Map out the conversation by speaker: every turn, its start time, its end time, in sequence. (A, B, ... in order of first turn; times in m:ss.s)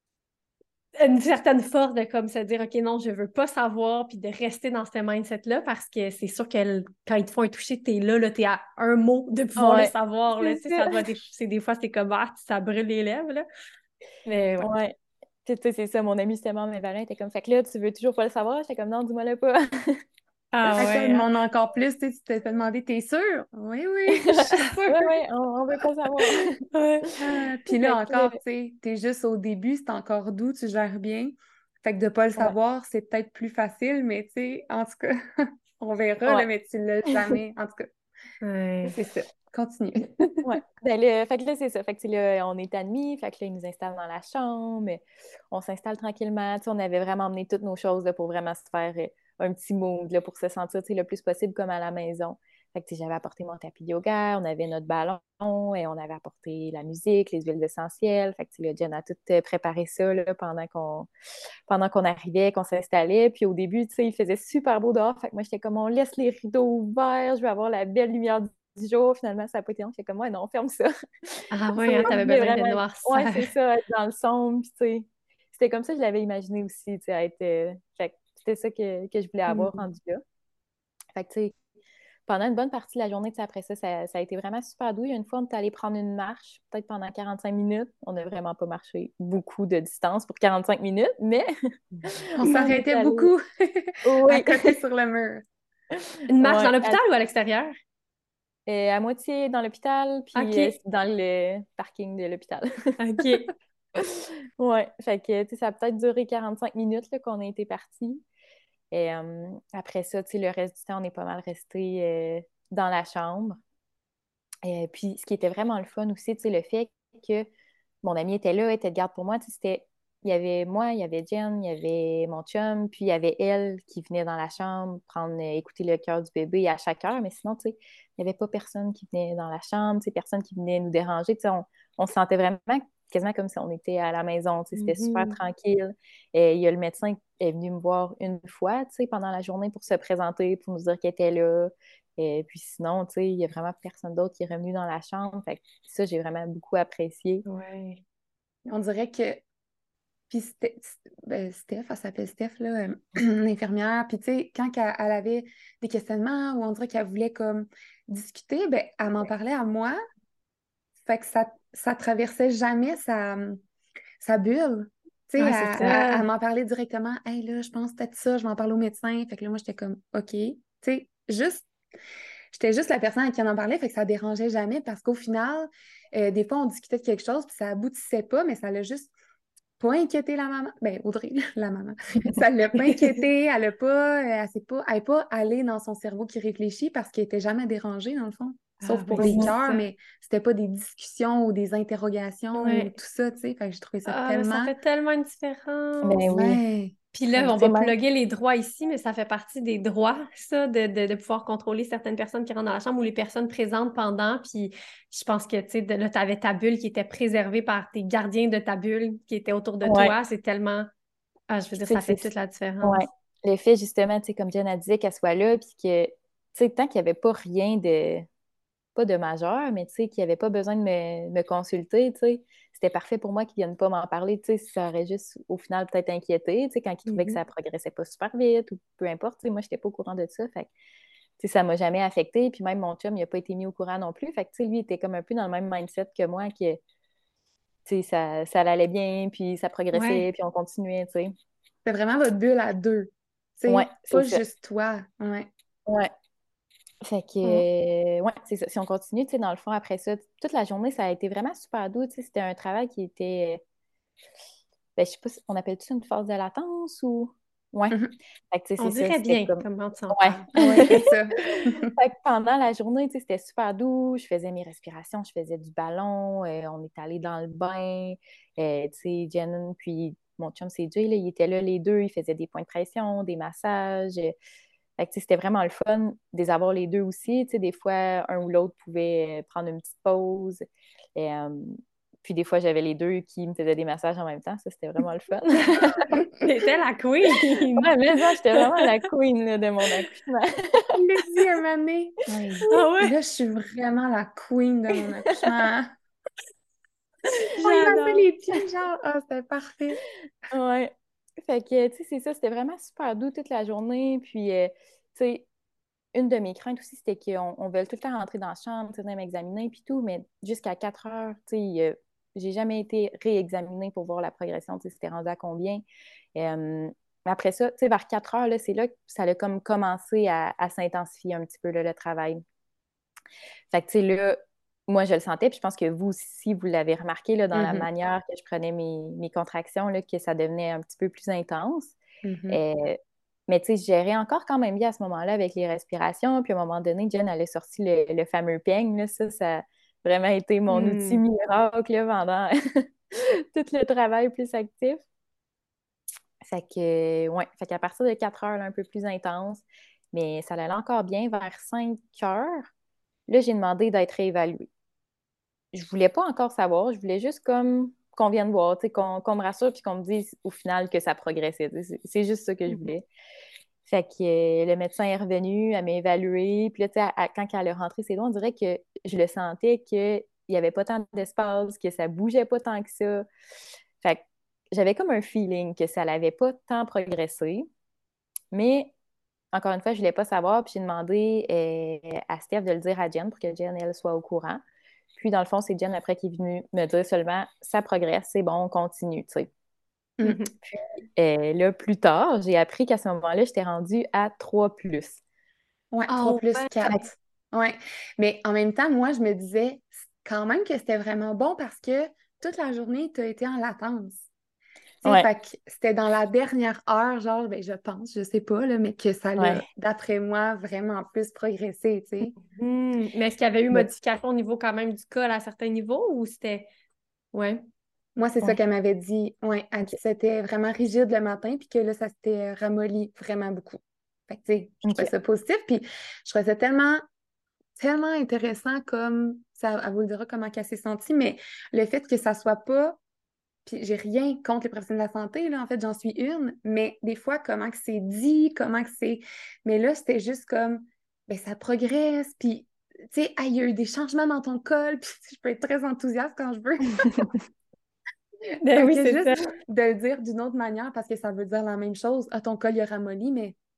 0:01.0-0:13.4 A
0:09.6-0:11.1 B
0:14.2-0:14.7 A
0:14.6-0:20.0 B
0:20.5-0:21.2 A
0:20.8-0:25.1 C
0:24.1-0:26.5 B
0:26.7-0:27.2 A
0:27.2-0:37.9 C
0:27.9-0:28.3 B
0:38.4-0:38.9 A
0:38.9-0:40.3 C
0:40.4-1:01.1 B
1:01.7-1:20.2 B
1:11.5-1:13.5 A
1:19.5-1:19.8 A
1:21.1-1:21.5 B
1:22.3-1:31.5 B
1:32.0-1:33.3 B
1:32.4-1:35.4 C
1:34.0-1:34.8 B
1:35.9-1:37.0 B
1:36.3-1:37.7 A
1:38.7-1:42.9 B
1:40.3-1:40.8 A
1:43.0-1:43.5 A
1:44.0-1:48.2 B
1:48.9-1:53.6 B
1:54.6-1:57.4 B
1:58.0-2:27.4 B
2:14.8-2:15.4 A
2:27.4-2:28.0 A
2:28.7-2:29.4 C
2:30.3-2:40.0 C
2:41.0-2:43.6 C
2:44.2-2:51.7 C
2:45.4-2:46.3 A
2:52.5-2:59.1 C
2:59.8-3:14.7 C
3:08.8-3:09.8 A
3:09.2-3:09.5 B
3:12.6-3:12.9 A
3:14.0-3:16.3 A
3:16.0-3:16.6 B
3:16.3-3:16.9 C
3:17.1-3:30.9 A
3:17.5-3:17.9 B
3:29.8-3:30.1 B
3:31.5-3:33.0 A
3:31.8-3:32.3 B
3:32.8-3:38.3 B
3:39.0-3:50.7 B
3:47.1-3:47.4 A
3:51.4-3:56.8 B
3:57.8-4:01.3 B
3:59.9-4:00.2 A
4:01.8-4:05.5 C
4:03.7-4:04.4 B
4:05.8-4:06.1 B
4:07.0-4:13.6 B
4:15.0-4:18.0 B
4:18.5-4:19.6 B
4:18.8-4:21.0 A
4:20.1-4:34.3 B
4:20.5-4:21.9 C
4:35.0-4:40.6 B
4:41.2-4:46.1 B
4:46.4-4:47.9 A
4:47.8-4:50.9 B
4:48.5-4:48.9 A
4:50.9-4:55.9 C
4:52.4-4:52.9 B
4:52.7-4:53.2 A
4:57.6-5:00.0 C
4:57.6-4:58.2 A
5:00.5-5:05.4 B
5:06.1-5:15.8 B
5:16.3-5:22.4 B
5:23.7-5:32.0 B
5:27.5-5:27.9 C
5:32.2-5:32.6 C
5:32.5-5:45.0 B
5:40.7-5:41.2 A
5:46.4-5:52.7 B
5:53.3-5:54.7 B
5:55.7-6:03.0 B
6:03.8-6:13.2 B
6:14.0-6:17.6 B
6:18.5-6:18.9 B
6:19.5-6:24.6 B
6:25.1-6:29.5 B
6:30.2-6:30.5 A
6:30.6-6:35.2 B
6:35.9-6:44.3 C
6:36.1-6:36.8 A
6:45.0-6:52.3 C
6:49.4-6:49.6 B
6:52.5-6:56.7 A
6:57.3-6:57.6 A
6:58.2-7:07.0 C
7:04.8-7:05.1 B
7:07.8-7:13.0 C
7:13.6-7:27.4 C
7:28.6-7:29.4 A
7:28.7-7:33.6 C